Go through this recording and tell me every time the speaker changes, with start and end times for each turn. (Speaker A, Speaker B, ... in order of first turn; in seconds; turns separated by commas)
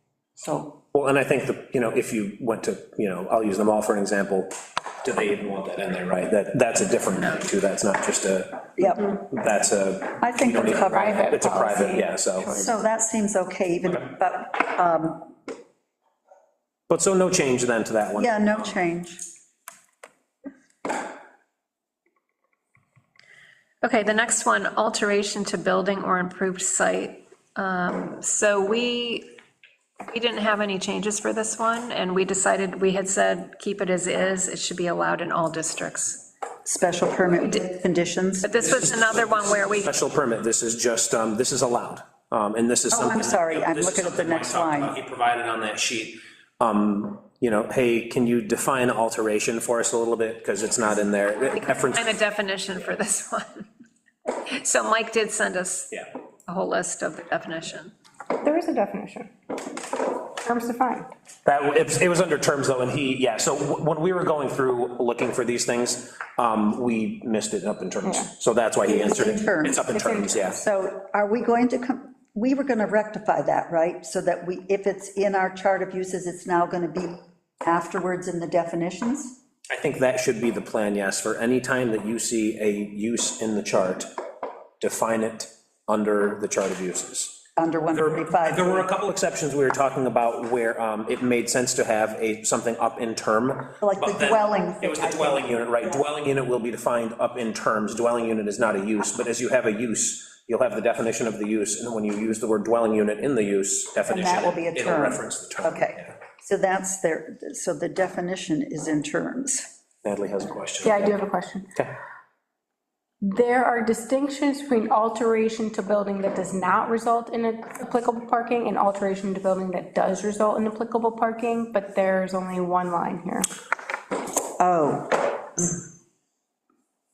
Speaker A: 0.4-0.8, Speaker B: 0.9-12.5, Speaker A: 8.8-9.2, Speaker A: 10.2-11.5, Speaker C: 10.7-12.7, Speaker A: 12.5-15.3, Speaker B: 16.9-18.8, Speaker A: 18.1-19.2, Speaker D: 23.8-29.3, Speaker D: 30.1-36.2, Speaker A: 36.6-38.5, Speaker D: 38.4-39.9, Speaker B: 38.6-53.0, Speaker A: 42.9-45.0, Speaker D: 51.4-53.7, Speaker D: 54.3-55.9, Speaker D: 56.5-57.9, Speaker C: 58.4-59.3, Speaker C: 60.4-61.1, Speaker B: 61.4-70.6, Speaker C: 68.0-68.3, Speaker A: 68.8-79.4, Speaker C: 70.0-70.2, Speaker B: 79.7-84.1, Speaker B: 84.8-87.4, Speaker A: 87.6-88.9, Speaker B: 87.9-106.1, Speaker A: 93.8-96.0, Speaker A: 104.1-109.7, Speaker B: 110.0-111.2, Speaker C: 110.8-111.7, Speaker C: 113.2-123.5, Speaker A: 124.6-125.7